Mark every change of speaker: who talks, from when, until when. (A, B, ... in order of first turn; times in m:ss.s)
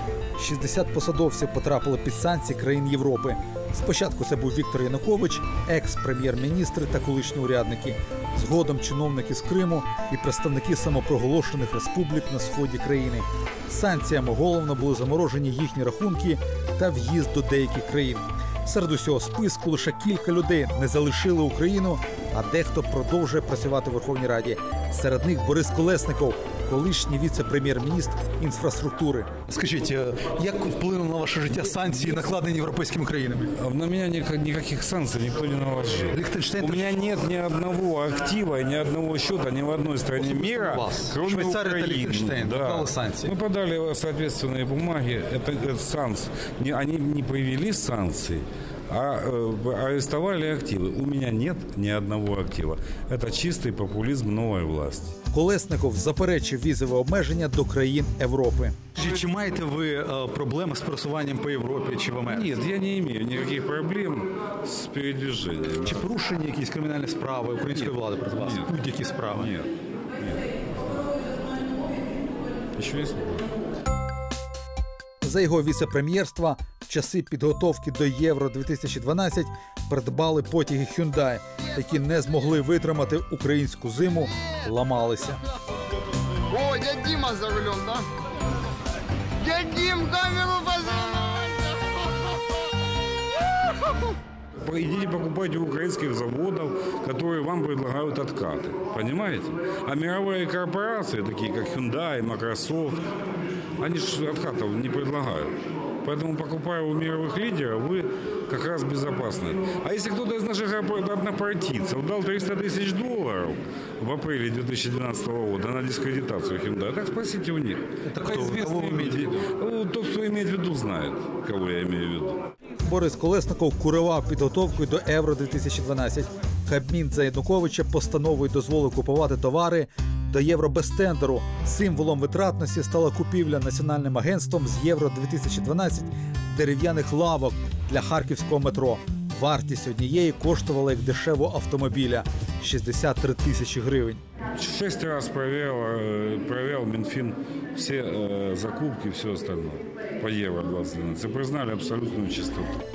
0:00.4-0:33.5 A
0:33.6-0:55.2 B
0:36.1-0:37.0 A
0:40.2-0:43.3 A
0:55.3-1:02.6 A
1:02.2-1:06.0 B
1:05.8-1:09.6 A
1:07.7-1:10.5 B
1:12.8-1:13.5 B
1:15.2-1:25.4 A
1:26.5-1:28.1 C
1:29.4-1:31.7 C
1:34.6-1:43.0 B
1:43.8-2:02.4 B
1:58.1-1:59.4 A
2:02.8-2:24.2 A
2:24.6-2:32.7 B